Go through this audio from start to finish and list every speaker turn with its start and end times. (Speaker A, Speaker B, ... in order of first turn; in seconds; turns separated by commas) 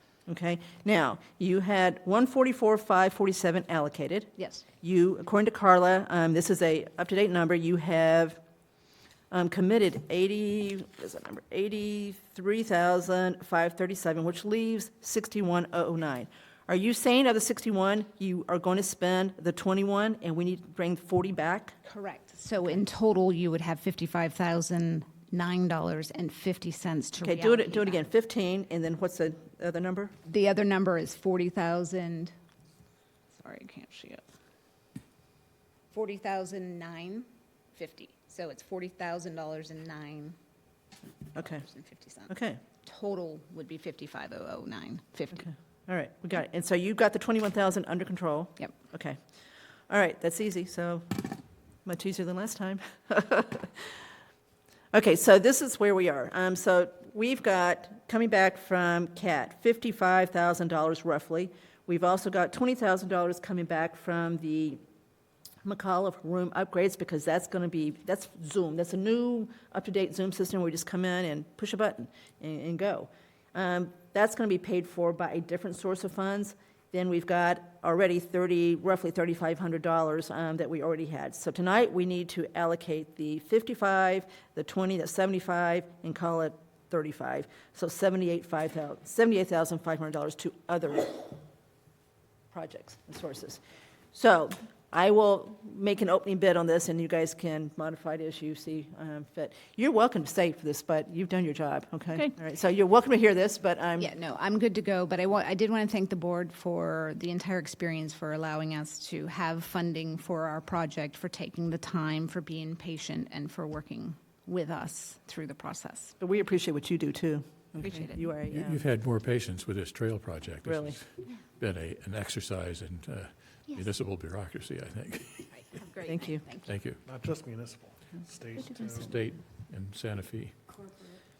Speaker A: 0.3-8.4, Speaker B: 4.4-4.6, Speaker A: 9.3-21.8, Speaker B: 21.8-28.0, Speaker A: 27.2-30.1, Speaker B: 30.2-32.3, Speaker B: 33.3-34.2, Speaker B: 35.9-40.4, Speaker B: 41.3-45.5, Speaker A: 41.4-41.6, Speaker A: 42.3-42.6, Speaker A: 45.3-49.2, Speaker A: 49.9-51.3, Speaker A: 51.8-54.0, Speaker A: 54.9-64.8, Speaker A: 65.6-91.4, Speaker A: 92.5-93.6, Speaker A: 94.1-104.1, Speaker B: 104.0-116.2, Speaker A: 116.2-118.8, Speaker B: 117.8-118.3, Speaker C: 118.5-125.5, Speaker A: 120.6-121.0, Speaker B: 125.5-126.7, Speaker A: 126.0-126.4, Speaker C: 126.6-127.0, Speaker D: 127.0-129.2, Speaker C: 128.9-130.5